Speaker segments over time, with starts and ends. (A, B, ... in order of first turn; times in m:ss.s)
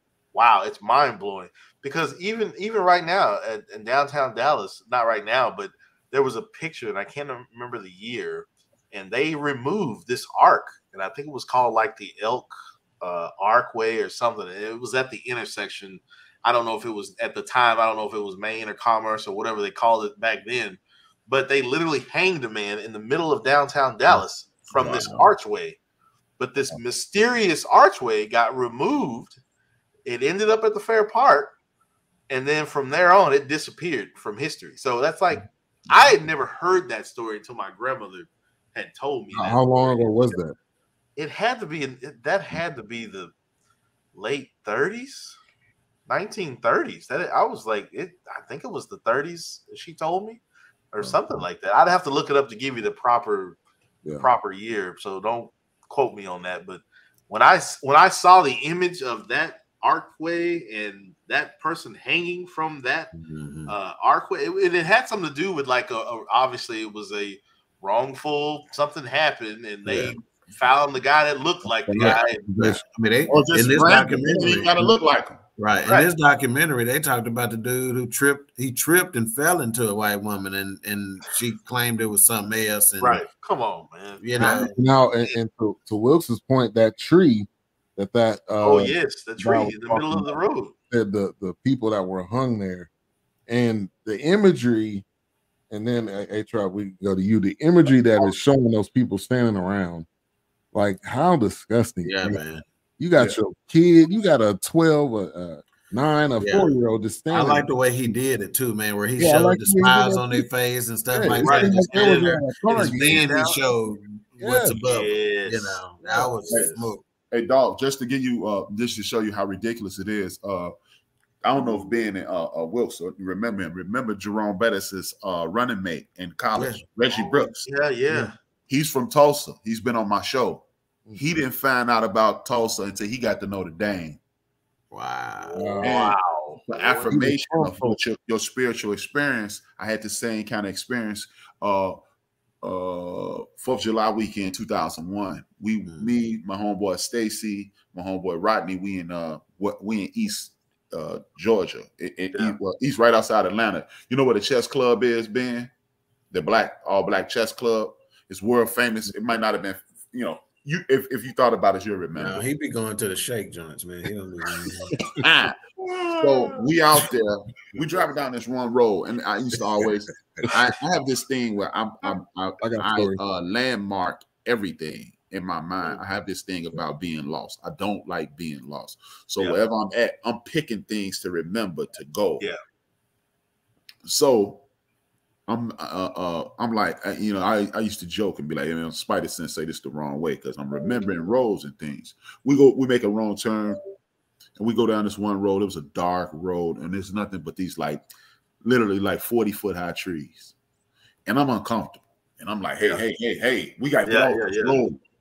0:00.3-0:25.8 A
0:24.7-0:25.2 B
0:26.4-0:29.4 A
0:30.0-0:31.5 A
0:32.3-0:40.4 A
0:39.3-0:40.5 C
0:41.2-0:43.3 A
0:44.1-0:45.4 A
0:46.1-0:50.4 A
0:50.9-0:53.6 A
0:54.1-1:03.1 A
1:03.2-1:03.7 D
1:03.7-1:12.5 A
1:09.8-1:10.2 D
1:12.0-1:14.8 D
1:12.5-1:12.8 C
1:13.3-1:15.4 B
1:15.6-1:23.2 D
1:23.0-1:25.3 A
1:24.2-1:24.7 D
1:24.4-1:30.3 C
1:28.6-1:30.7 A
1:30.9-1:32.9 C
1:33.5-1:35.0 C
1:35.7-1:40.0 C
1:40.7-1:42.4 C
1:42.0-1:42.6 D
1:43.0-1:47.7 C
1:46.4-1:46.7 D
1:47.3-1:57.0 D
1:49.2-1:50.4 C
1:51.1-1:53.0 C
1:51.4-1:53.3 B
1:51.4-1:53.6 A
1:54.3-1:56.9 A
1:54.4-1:54.8 C
1:57.3-2:00.7 B
2:01.4-2:07.7 B
2:06.5-2:06.8 D
2:07.1-2:08.3 A
2:08.7-2:14.2 B
2:14.9-2:15.8 D
2:15.4-2:17.1 A
2:15.6-2:16.0 C
2:15.8-2:22.0 B
2:17.1-2:18.0 C
2:22.6-2:35.7 B
2:25.8-2:26.1 D
2:36.3-2:42.4 B
2:42.2-2:44.9 D
2:45.2-3:02.5 B
2:46.2-2:46.5 A
2:52.6-2:53.2 C
3:04.0-3:04.6 B
3:05.5-3:13.8 B
3:14.6-3:18.0 B
3:18.6-3:20.5 B
3:21.2-3:25.0 B
3:24.0-3:24.8 A